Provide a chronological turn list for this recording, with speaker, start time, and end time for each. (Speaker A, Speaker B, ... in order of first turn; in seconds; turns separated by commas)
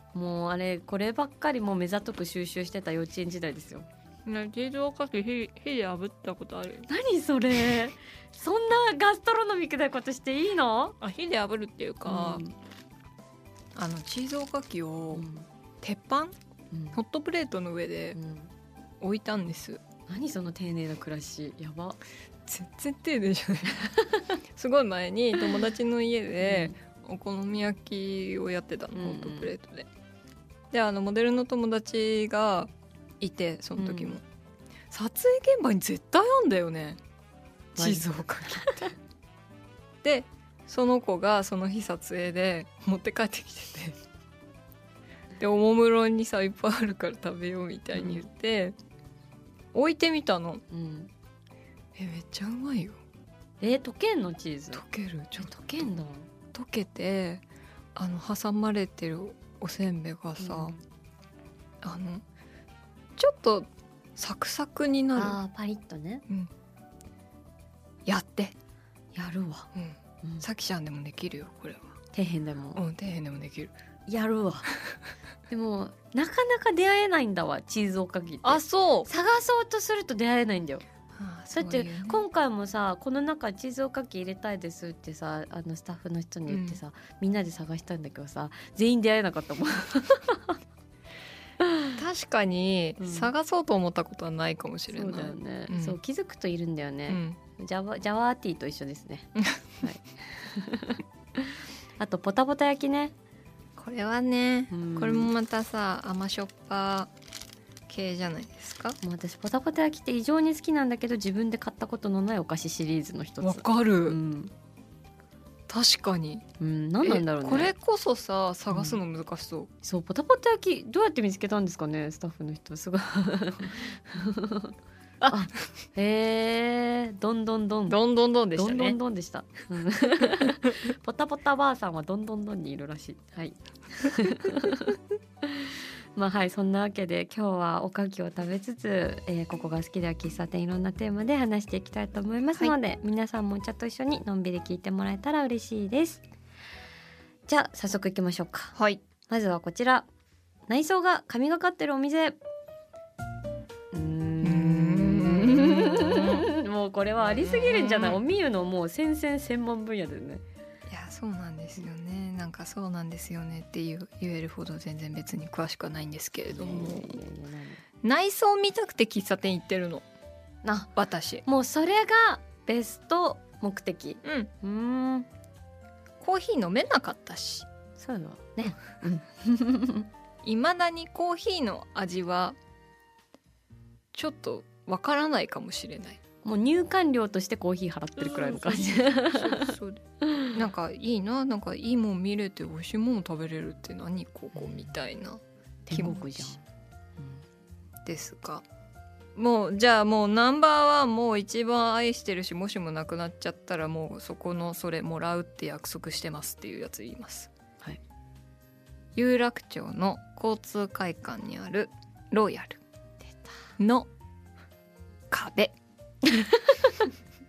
Speaker A: 0.1-3.9, Speaker B: 4.2-6.9, Speaker A: 6.9-11.0, Speaker B: 11.0-12.4, Speaker A: 12.1-12.5, Speaker B: 13.7-15.2, Speaker A: 15.1-15.4, Speaker B: 15.8-16.4, Speaker A: 16.7-17.0, Speaker B: 16.9-18.2, Speaker A: 18.1-18.5, Speaker B: 19.0-19.8, Speaker A: 20.1-22.0, Speaker B: 22.5-29.9, Speaker A: 23.9-24.3, Speaker A: 26.4-26.7, Speaker A: 28.9-29.5, Speaker B: 30.7-34.2, Speaker A: 33.8-34.2, Speaker B: 34.9-37.0, Speaker B: 37.8-38.9, Speaker A: 37.8-38.9, Speaker B: 40.0-44.0, Speaker B: 45.4-48.8, Speaker A: 47.9-48.2, Speaker B: 49.7-50.6, Speaker A: 50.7-51.1, Speaker B: 51.9-53.0, Speaker A: 53.6-54.8, Speaker B: 54.7-55.5, Speaker A: 55.4-56.3, Speaker B: 56.5-57.4, Speaker B: 57.9-60.8, Speaker A: 60.4-60.8, Speaker B: 61.8-62.2, Speaker B: 63.2-65.4, Speaker A: 65.1-66.2, Speaker B: 68.0-68.5, Speaker A: 69.1-69.7, Speaker B: 69.7-72.0, Speaker A: 72.1-72.8, Speaker B: 72.7-73.7, Speaker A: 74.1-74.7, Speaker A: 75.5-80.8, Speaker B: 78.4-79.1, Speaker B: 81.1-82.2, Speaker A: 81.5-90.6, Speaker B: 86.5-86.8, Speaker A: 91.6-91.9, Speaker B: 91.9-96.0, Speaker A: 93.0-93.3, Speaker A: 94.9-103.1, Speaker B: 97.1-97.4, Speaker B: 99.4-99.6, Speaker B: 103.8-107.1, Speaker A: 104.7-105.3, Speaker B: 107.9-109.0, Speaker A: 109.0-114.5, Speaker B: 113.4-114.2, Speaker B: 115.7-116.5, Speaker A: 116.6-117.7, Speaker B: 117.0-119.7, Speaker A: 118.7-119.0, Speaker A: 119.8-124.7, Speaker A: 125.3-128.0, Speaker B: 127.9-129.0, Speaker A: 128.5-146.2, Speaker B: 130.4-130.7, Speaker A: 147.5-148.7, Speaker B: 148.7-149.0, Speaker A: 149.3-150.1, Speaker A: 150.7-152.4, Speaker A: 153.9-160.4, Speaker B: 154.4-156.5, Speaker B: 157.2-158.2, Speaker B: 160.9-167.2, Speaker A: 166.5-167.8, Speaker B: 168.0-170.1, Speaker A: 170.6-170.9, Speaker B: 170.9-171.4, Speaker A: 171.4-175.3, Speaker B: 174.2-174.5, Speaker B: 176.2-177.7, Speaker A: 178.0-180.1, Speaker B: 180.4-182.6, Speaker B: 184.1-186.2, Speaker A: 186.4-190.5, Speaker B: 188.2-196.5, Speaker A: 194.5-194.9, Speaker A: 195.9-196.6, Speaker A: 197.2-197.4, Speaker B: 198.0-198.6, Speaker B: 199.3-207.5, Speaker B: 209.1-212.8, Speaker B: 213.8-214.1, Speaker B: 215.3-215.7, Speaker A: 216.3-217.1